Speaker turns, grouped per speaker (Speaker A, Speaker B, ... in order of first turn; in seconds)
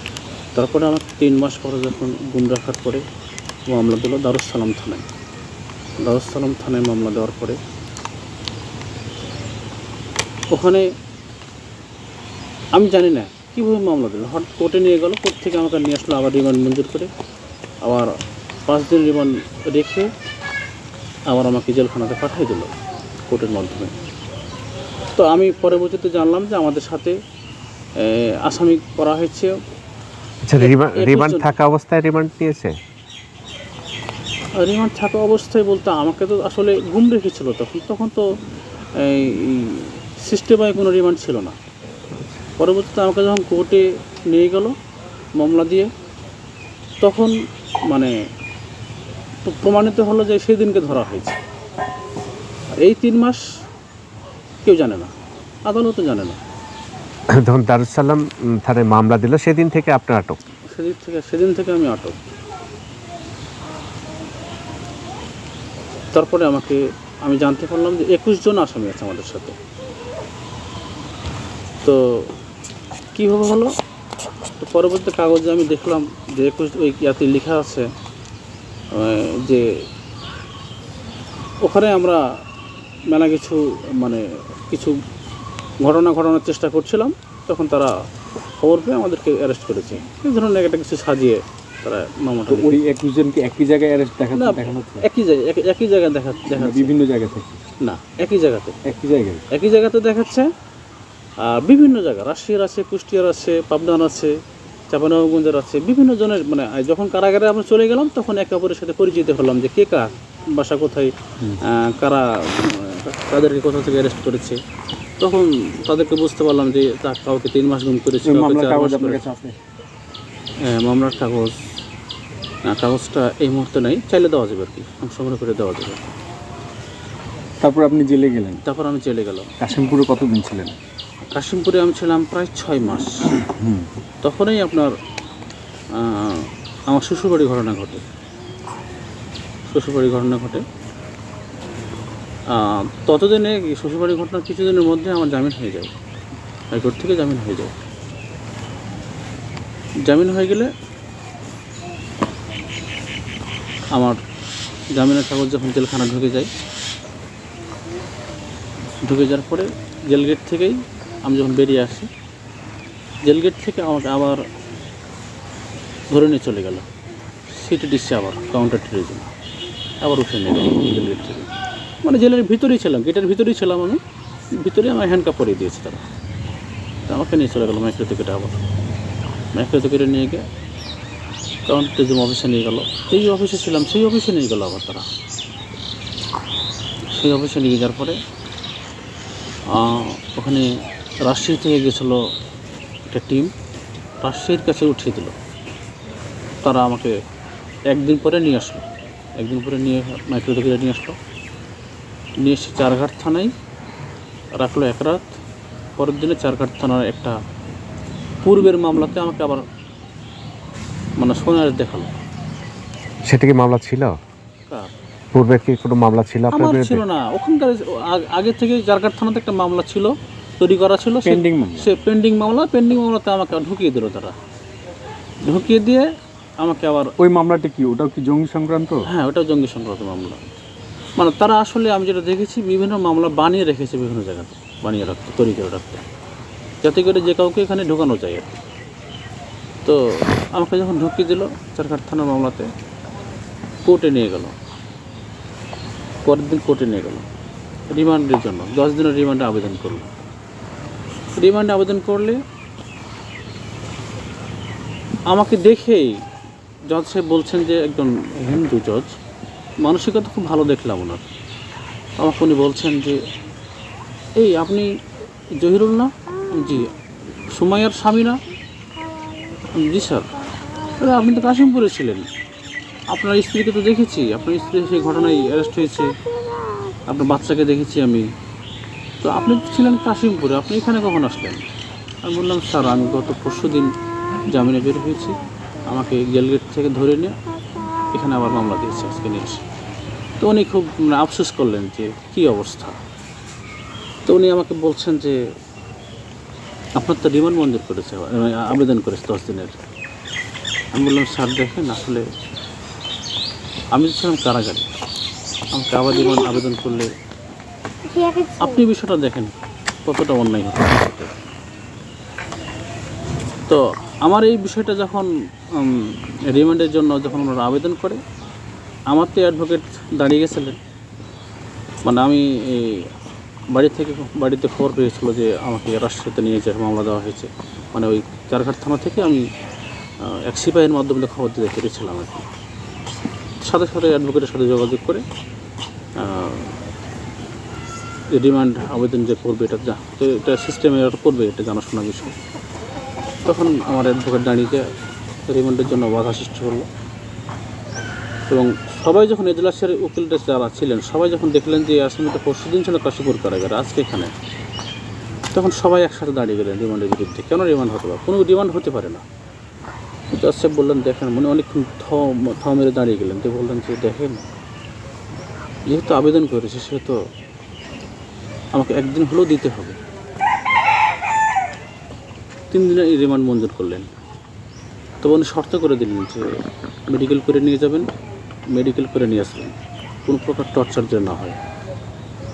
Speaker A: 0.6-3.0, 3.7-5.1, 6.0-7.6, 10.5-10.9, 12.7-17.1, 17.8-18.1, 18.7-20.1, 21.3-22.8, 23.3-23.9, 25.2-27.2, 28.0-29.6, 30.6-31.5, 34.6-38.3, 39.0-41.6, 42.6-44.8, 45.4-45.9, 47.0-47.4, 49.5-51.4, 52.8-53.5, 54.6-55.1, 55.7-56.4, 60.7-62.2, 66.1-69.6, 71.8-72.3, 73.2-73.8, 74.6-77.9, 78.9-79.7, 81.6-82.2, 83.1-85.0, 85.8-88.0, 88.6-92.8, 94.3-96.9, 97.8-98.8, 99.5-100.5, 101.4-104.4, 104.9-114.6, 115.2-119.2, 120.7-121.6, 122.7-126.0, 128.6-129.5, 131.3-133.2, 134.2-134.9, 135.9-138.0, 139.7-140.6, 142.5-145.9, 146.7-147.7, 150.1-150.7, 153.9-154.2, 154.9-156.5, 159.0-162.1, 163.2-164.4, 166.1-166.9, 167.5-169.3, 170.0-171.5, 172.0-174.0, 174.6-176.1, 177.1-178.6, 179.6-180.5, 181.7-185.1, 187.1-188.2, 189.7-190.7, 191.3-192.2, 193.1-193.5, 194.2-195.3, 196.6-197.2, 197.9-198.9, 199.4-201.2, 202.4-203.5, 204.6-205.4, 206.0-207.4, 208.4-209.7, 211.2-212.1, 216.5-224.4, 225.4-227.1, 229.1-230.4, 231.2-236.0, 236.8-238.6, 239.8-242.7, 243.8-244.6, 246.2-247.3, 247.9-250.1, 251.4-252.4, 255.3-256.2, 256.9-259.1, 259.8-261.2, 262.2-263.2, 264.4-264.9, 265.6-266.9, 267.5-268.4, 269.7-270.3, 271.0-272.2, 273.1-276.1, 277.1-278.3, 279.2-281.6, 282.2-283.9, 284.5-287.4, 288.1-289.6, 290.4-293.0, 294.3-295.4, 297.0-299.8, 300.9-302.2, 303.9-304.9, 305.7-307.1, 308.2-309.5, 310.1-311.3, 313.7-318.2, 319.1-320.8, 322.1-323.1, 323.7-329.4, 330.2-332.4, 333.6-335.2, 336.2-336.8, 338.3-342.4, 343.4-344.8, 345.5-346.9, 348.5-354.3, 355.5-359.2, 360.3-364.4, 365.9-367.2, 368.7-370.0, 372.7-374.1, 375.2-376.5, 377.1-378.1, 378.7-379.8, 380.3-381.6
Speaker B: 30.4-32.8, 57.3-60.4, 213.3-214.2, 215.3-217.0
Speaker C: 92.5-95.0, 96.6-97.6, 98.9-99.5, 118.2-119.5, 127.6-128.6, 129.6-130.8, 133.4-133.9, 221.2-221.9, 227.2-229.1